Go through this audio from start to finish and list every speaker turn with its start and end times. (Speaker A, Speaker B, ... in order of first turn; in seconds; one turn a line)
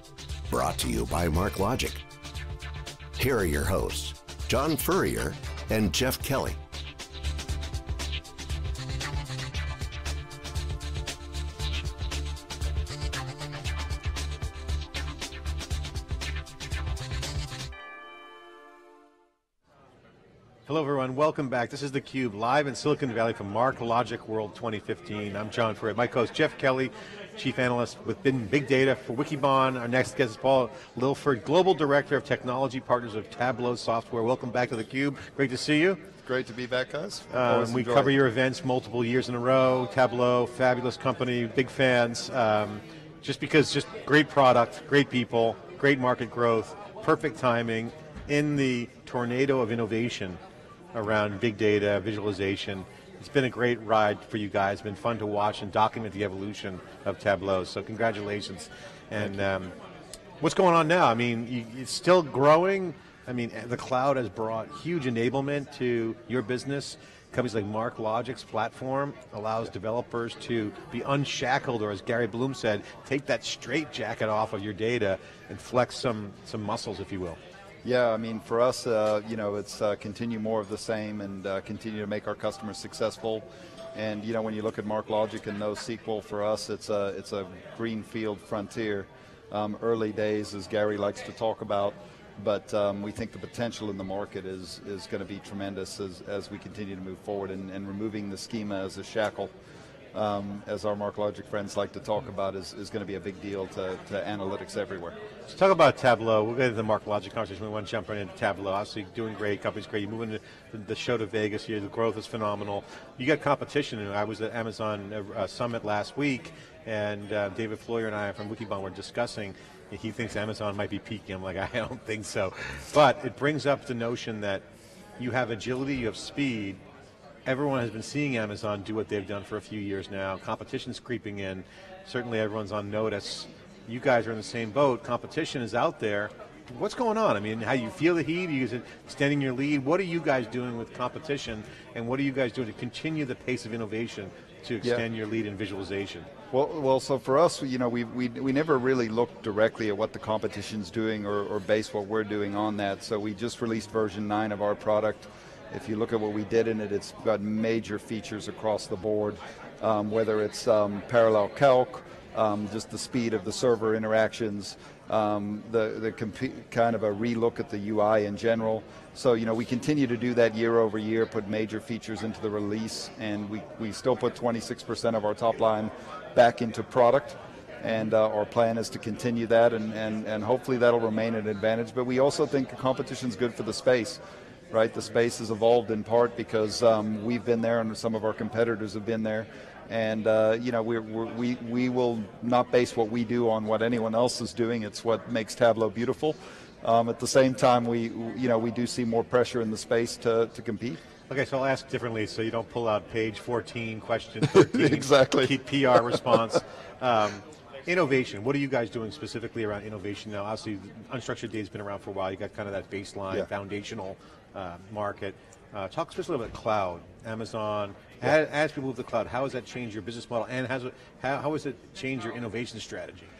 Speaker A: 0.5-2.0
Speaker A: 3.2-6.6
Speaker B: 20.7-36.0
Speaker C: 36.2-38.2
Speaker B: 37.3-50.4
Speaker B: 50.9-59.8
Speaker B: 60.4-77.4
Speaker C: 77.8-99.5
Speaker C: 100.1-105.2
Speaker B: 105.5-124.6
Speaker B: 125.2-126.8
Speaker B: 127.5-146.3
Speaker C: 146.5-184.2
Speaker C: 184.7-201.0
Speaker B: 201.3-223.3
Speaker C: 204.4-206.6